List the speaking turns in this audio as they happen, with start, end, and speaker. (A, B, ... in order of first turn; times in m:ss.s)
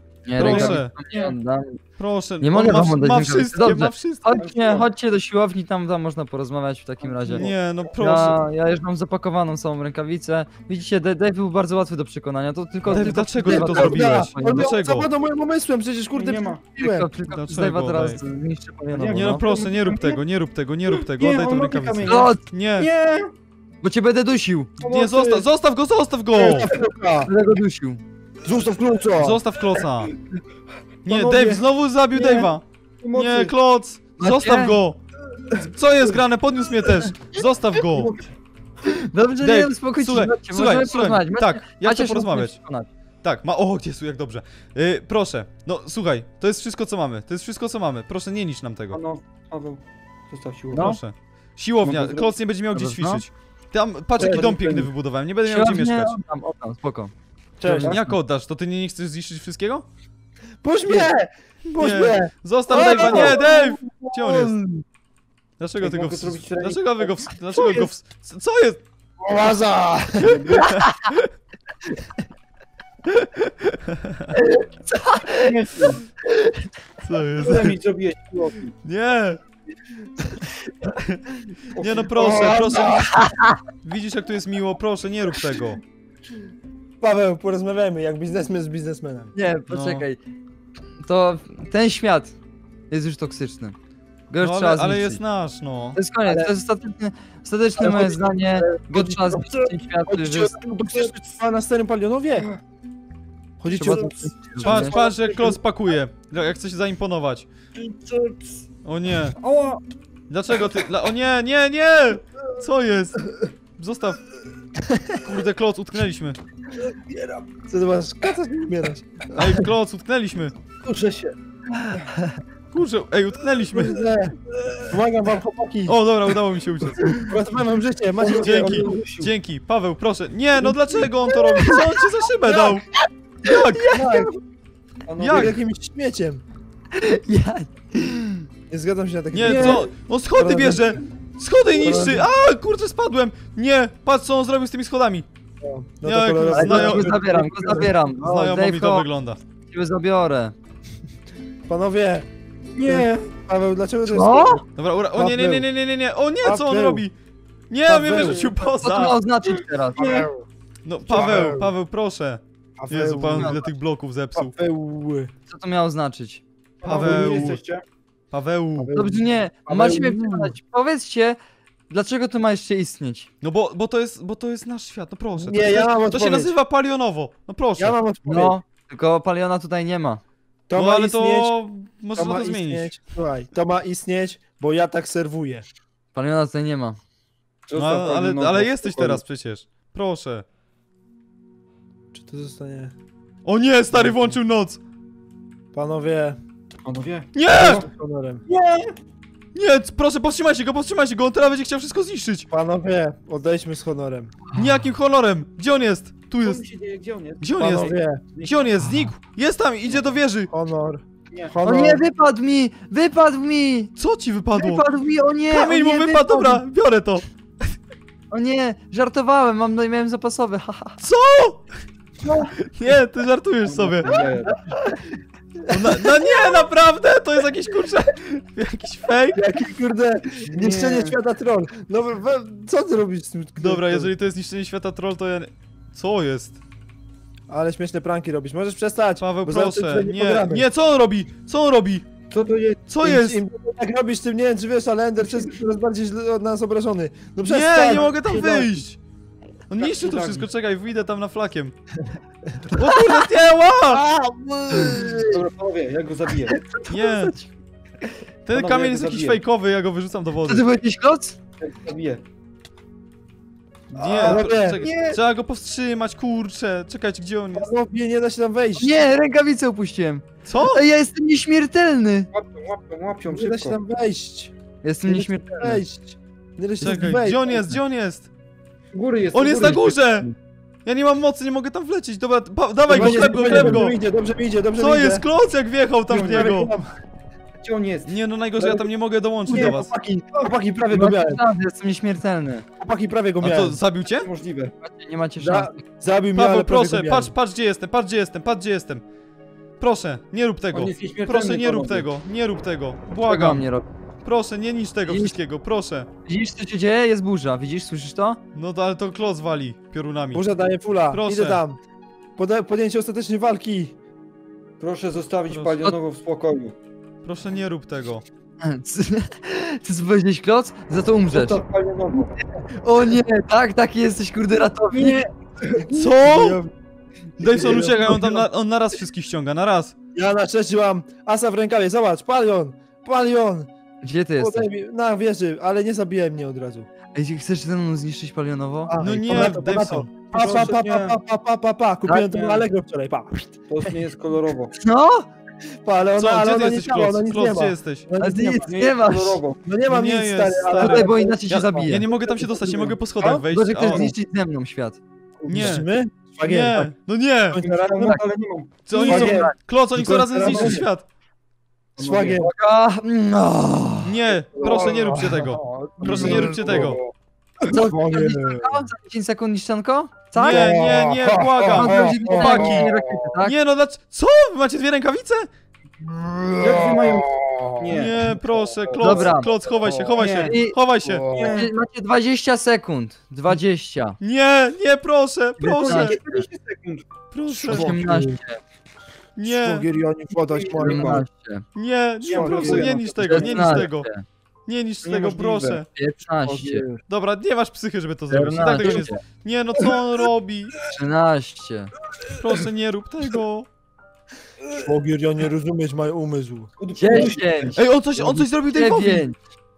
0:00.2-0:01.8 A
0:00.4-0:00.9 B
0:00.4-0:01.4 C
0:02.0-0:04.3 B
0:02.4-0:14.8 A
0:04.3-0:04.9 C
0:07.0-0:07.9 C
0:07.3-0:08.4 B
0:12.8-0:13.3 C
0:12.9-0:15.1 B
0:13.4-0:17.1 D
0:16.1-0:16.6 C
0:16.8-0:19.4 A
0:17.3-0:18.2 B
0:18.9-0:20.2 C
0:19.1-0:22.9 B
0:20.9-0:23.3 C
0:22.0-0:22.4 A
0:23.8-0:24.7 A
0:24.8-0:25.5 C
0:24.9-0:26.7 B
0:26.3-0:27.3 D
0:27.2-0:28.0 A
0:28.4-0:29.4 D
0:29.2-0:30.1 B
0:31.0-0:33.5 C
0:31.0-0:35.0 B
0:34.2-0:34.8 A
0:35.6-0:38.1 B
0:37.8-0:38.2 C
0:38.8-0:42.9 A
0:39.4-0:42.6 B
0:43.2-0:49.0 B
0:48.9-0:50.9 C
0:50.7-0:51.0 A
0:50.7-0:56.2 B
0:51.8-0:52.3 C
0:52.7-0:53.2 A
0:54.2-0:54.5 D
0:54.2-0:54.9 C
0:55.4-0:58.2 A
0:57.6-0:57.9 D
0:57.8-0:59.8 B
1:00.6-1:04.4 D
1:01.7-1:04.6 B
1:02.8-1:03.4 C
1:05.6-1:08.8 B
1:05.8-1:07.3 C
1:09.2-1:10.4 D
1:10.2-1:10.7 C
1:10.6-1:11.2 B
1:14.3-1:16.5 A
1:15.4-1:16.0 C
1:17.0-1:17.7 B
1:17.4-1:18.8 C
1:18.8-1:19.4 B
1:21.0-1:23.1 B
1:21.7-1:22.7 C
1:22.2-1:23.3 D
1:23.1-1:23.6 A
1:23.8-1:25.8 B
1:27.0-1:29.3 D
1:29.3-1:30.2 A
1:29.7-1:30.0 B
1:31.0-1:32.3 A
1:32.9-1:33.8 A
1:34.3-1:35.2 A
1:34.4-1:36.0 B
1:35.9-1:41.1 A
1:36.2-1:36.5 D
1:37.8-1:42.5 D
1:43.6-1:45.4 D
1:43.7-1:45.0 A
1:44.6-1:47.5 B
1:44.7-1:45.5 C
1:47.8-1:48.6 C
1:48.8-1:49.4 B
1:49.4-1:49.8 C
1:50.3-1:54.3 B
1:54.9-1:55.2 D
1:55.2-1:56.4 B
1:57.1-1:59.6 D
1:59.3-2:00.5 B
2:00.8-2:01.3 D
2:02.7-2:04.0 B
2:03.7-2:06.0 D
2:05.8-2:07.2 B
2:07.1-2:09.0 D
2:08.2-2:09.3 C
2:08.4-2:12.9 B
2:11.5-2:12.0 A
2:13.4-2:14.0 B
2:13.5-2:14.4 A
2:13.9-2:14.4 D
2:15.0-2:15.6 C
2:15.2-2:15.6 B
2:15.3-2:16.4 D
2:16.9-2:18.5 A
2:18.7-2:21.0 D
2:19.3-2:25.3 B
2:19.4-2:19.9 C
2:21.8-2:22.3 D
2:25.6-2:28.0 D
2:26.0-2:27.2 B
2:26.5-2:29.1 A
2:28.1-2:29.4 B
2:29.7-2:30.5 A
2:31.7-2:32.2 D
2:32.8-2:33.3 C
2:32.8-2:35.7 D
2:34.0-2:34.6 A
2:34.8-2:37.1 B
2:36.4-2:37.0 D
2:37.7-2:39.2 B
2:37.9-2:38.4 D
2:38.0-2:38.6 C
2:38.8-2:40.1 A
2:39.9-2:40.3 C
2:40.0-2:40.3 D
2:40.8-2:44.6 B
2:41.1-2:41.7 D
2:42.8-2:43.6 D
2:43.3-2:43.7 A
2:44.3-2:45.3 D
2:45.5-2:46.4 A
2:46.8-2:47.8 C
2:46.8-2:47.6 B
2:47.0-2:47.3 D
2:48.3-2:49.0 B
2:48.8-2:50.6 D
2:48.9-2:53.3 A
2:53.4-2:58.0 B
2:55.3-2:56.5 D
2:57.8-2:58.6 D
2:58.2-3:00.2 A
3:00.7-3:01.6 D
3:00.7-3:03.0 B
3:02.1-3:05.6 D
3:06.1-3:07.0 A
3:07.7-3:09.2 C
3:07.7-3:10.4 B
3:12.1-3:12.9 D
3:13.4-3:14.8 B
3:13.9-3:14.4 D
3:15.7-3:16.4 D
3:16.8-3:17.8 C
3:17.3-3:17.8 B
3:17.6-3:18.4 D
3:18.5-3:18.9 C
3:19.5-3:22.5 B
3:22.5-3:24.4 D
3:24.5-3:26.6 B
3:26.4-3:28.7 C
3:27.4-3:30.5 B
3:27.6-3:28.2 D
3:29.9-3:30.2 C
3:30.5-3:32.0 D
3:31.6-3:33.9 A
3:34.0-3:34.8 B
3:34.6-3:36.6 A
3:35.5-3:37.7 B
3:38.3-3:41.0 A
3:41.0-3:41.7 B
3:42.6-3:44.2 B
3:43.6-3:44.7 C
3:45.6-3:49.4 B
3:49.3-3:54.1 D
3:50.4-3:51.2 C
3:53.6-3:56.6 B
3:57.5-4:00.6 D
3:59.2-4:02.1 B
4:02.3-4:02.8 C
4:02.9-4:03.4 B
4:03.0-4:08.8 D
4:07.4-4:09.0 B
4:09.7-4:11.7 B
4:09.8-4:10.5 C
4:12.7-4:14.0 B
4:13.9-4:15.4 D
4:15.3-4:16.6 C
4:16.7-4:17.5 A
4:16.9-4:17.3 B
4:18.4-4:20.7 B
4:18.5-4:19.4 C
4:20.4-4:21.4 A
4:21.6-4:22.2 C
4:23.9-4:27.7 B
4:24.0-4:24.8 D
4:24.1-4:25.2 C
4:27.5-4:29.0 D
4:28.8-4:32.3 A
4:30.4-4:30.8 B
4:32.3-4:33.8 C
4:33.3-4:34.5 D
4:34.8-4:35.8 A
4:35.0-4:37.8 D
4:36.8-4:38.3 B
4:38.9-4:40.2 C
4:39.3-4:40.3 B
4:40.8-4:44.0 B
4:42.9-4:45.2 D
4:42.9-4:43.8 C
4:44.8-4:46.7 B
4:46.1-4:46.5 C
4:46.2-4:46.9 D
4:47.6-4:48.1 C
4:48.1-4:49.9 B
4:48.6-4:48.9 D
4:49.5-4:51.4 D
4:50.9-4:52.6 A
4:52.8-4:53.8 D
4:53.4-4:54.3 B
4:54.1-4:54.7 C
4:54.8-4:55.8 A
4:55.4-4:57.3 D
4:56.3-4:59.0 B
4:59.8-5:03.7 B
5:00.7-5:02.1 C
5:03.2-5:03.8 A
5:04.2-5:06.1 B
5:05.1-5:05.4 A
5:06.2-5:08.4 A
5:08.5-5:10.4 B
5:10.3-5:11.8 D
5:11.1-5:11.6 B
5:12.4-5:13.9 D
5:14.8-5:16.7 C
5:15.5-5:15.8 B
5:17.2-5:18.2 B
5:18.6-5:21.6 A
5:21.3-5:22.4 C
5:22.8-5:25.2 A
5:24.9-5:25.8 C
5:25.7-5:26.7 D
5:25.9-5:26.6 B
5:27.4-5:29.9 B
5:27.4-5:28.4 D
5:30.1-5:33.7 D
5:34.0-5:34.7 A
5:34.4-5:36.9 D
5:37.1-5:39.0 A
5:38.9-5:43.7 D
5:39.0-5:40.2 B
5:40.3-5:41.2 C
5:42.3-5:42.6 C
5:43.7-5:44.7 C
5:44.8-5:45.3 A
5:45.8-5:48.6 D
5:46.2-5:48.1 B
5:48.2-5:49.4 A
5:48.6-5:49.6 C
5:49.6-5:52.8 D
5:49.8-5:54.0 B
5:50.7-5:52.1 A
5:52.5-5:54.1 C
5:53.5-5:55.0 A
5:55.4-5:55.8 C
5:55.5-5:55.8 B
5:55.5-5:56.9 D
5:56.4-5:57.6 B
5:57.5-5:58.2 D
5:57.6-5:59.5 C
5:58.9-6:01.0 B
5:58.9-6:00.8 D
6:00.4-6:00.8 C
6:02.0-6:02.4 C
6:02.0-6:02.5 D
6:02.4-6:04.2 A
6:04.0-6:07.0 B
6:04.5-6:05.1 C
6:04.6-6:07.0 D
6:05.6-6:07.0 C
6:07.7-6:08.8 D
6:07.7-6:13.5 A
6:10.4-6:15.5 B
6:10.5-6:12.8 D
6:16.2-6:16.5 D
6:16.6-6:18.3 C
6:17.9-6:21.4 B
6:18.8-6:19.3 C
6:19.0-6:19.5 A
6:19.8-6:20.6 C
6:20.4-6:20.8 A
6:21.3-6:24.2 A
6:21.3-6:21.7 C
6:24.2-6:26.2 B
6:25.6-6:26.4 A
6:25.8-6:27.0 C
6:27.3-6:28.0 B
6:27.5-6:28.6 A
6:27.6-6:28.4 D
6:29.4-6:29.8 B
6:29.4-6:31.2 D
6:30.3-6:31.2 C
6:30.7-6:31.6 A
6:31.7-6:34.1 B
6:32.2-6:33.9 C
6:32.2-6:33.0 D
6:33.2-6:34.2 A
6:34.6-6:35.9 B
6:35.0-6:35.8 C
6:35.9-6:36.9 A
6:36.4-6:37.0 D
6:37.1-6:40.8 B
6:38.3-6:39.2 A
6:40.9-6:41.9 A
6:42.3-6:43.7 B
6:44.8-6:47.3 D
6:46.8-6:47.8 C
6:47.0-6:49.4 A
6:47.8-6:49.3 B